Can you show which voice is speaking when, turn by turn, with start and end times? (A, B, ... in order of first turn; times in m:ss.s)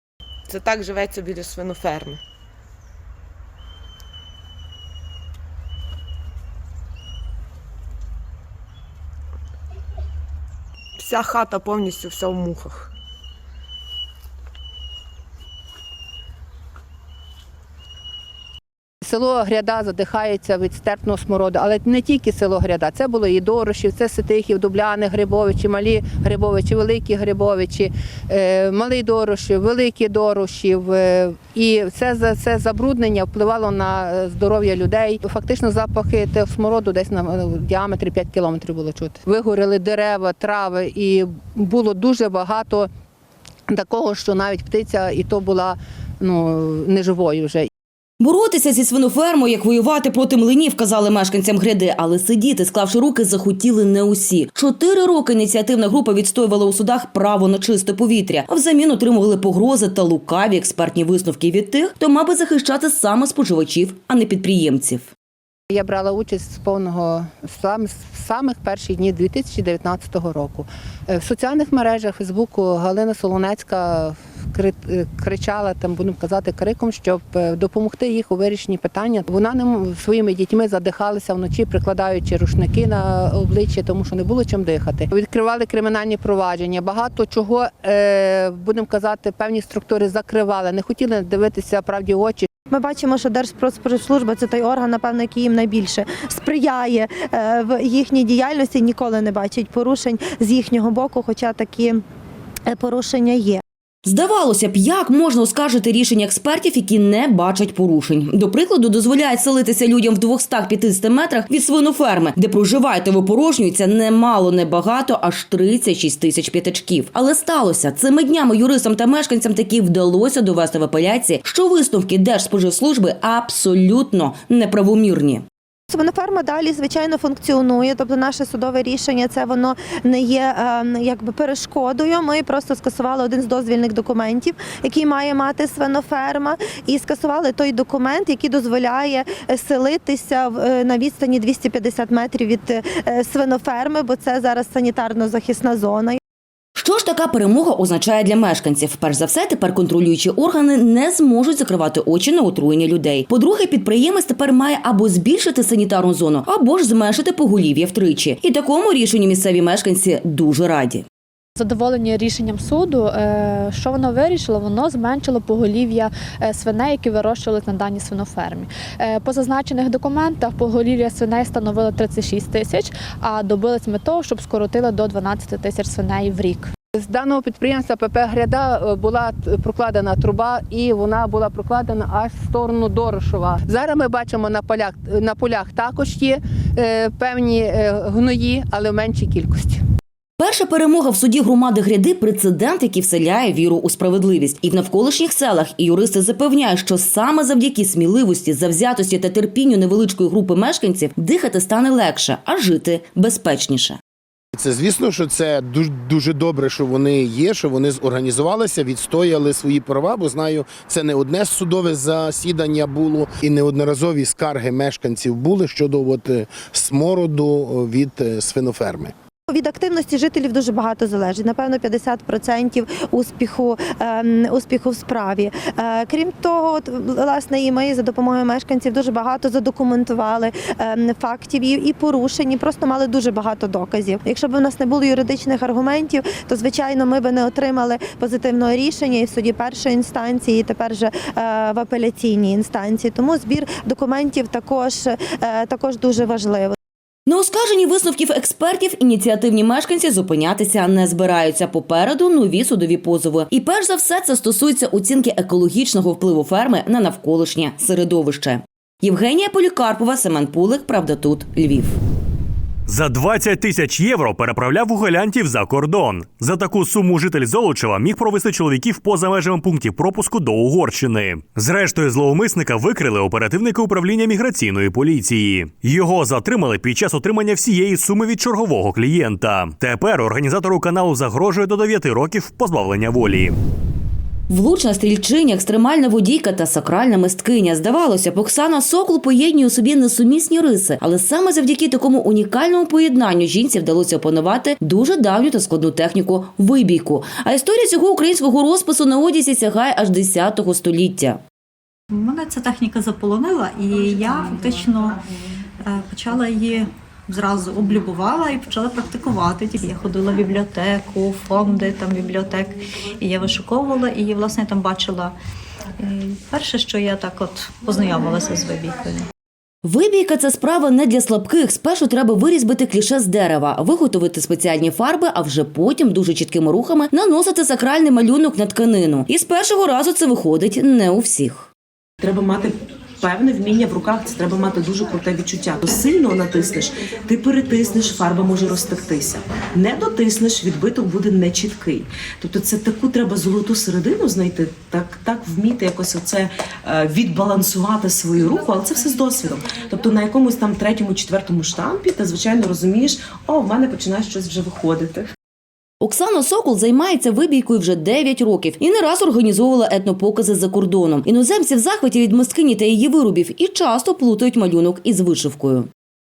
0:00.5-0:02.2 A
0:11.0-0:12.9 A
0:19.0-0:42.9 B
0:43.7-0:47.7 B
0:48.2-1:05.1 C
1:05.7-1:32.5 B
1:32.7-1:42.0 D
1:42.7-1:43.6 D
1:44.0-2:05.4 C
2:05.9-2:26.2 D
2:26.8-2:41.0 C
2:41.6-2:56.7 E
2:57.0-3:09.8 B
3:10.4-3:24.0 C
3:24.6-3:39.1 F
3:39.5-4:06.7 D
4:07.3-4:22.0 C
4:22.9-4:43.6 G
4:44.5-5:01.4 C
5:02.1-5:05.2 H
5:05.8-5:15.4 H
5:16.0-5:19.3 H
5:19.8-5:31.7 C
5:32.2-5:55.3 I
5:56.0-6:05.9 C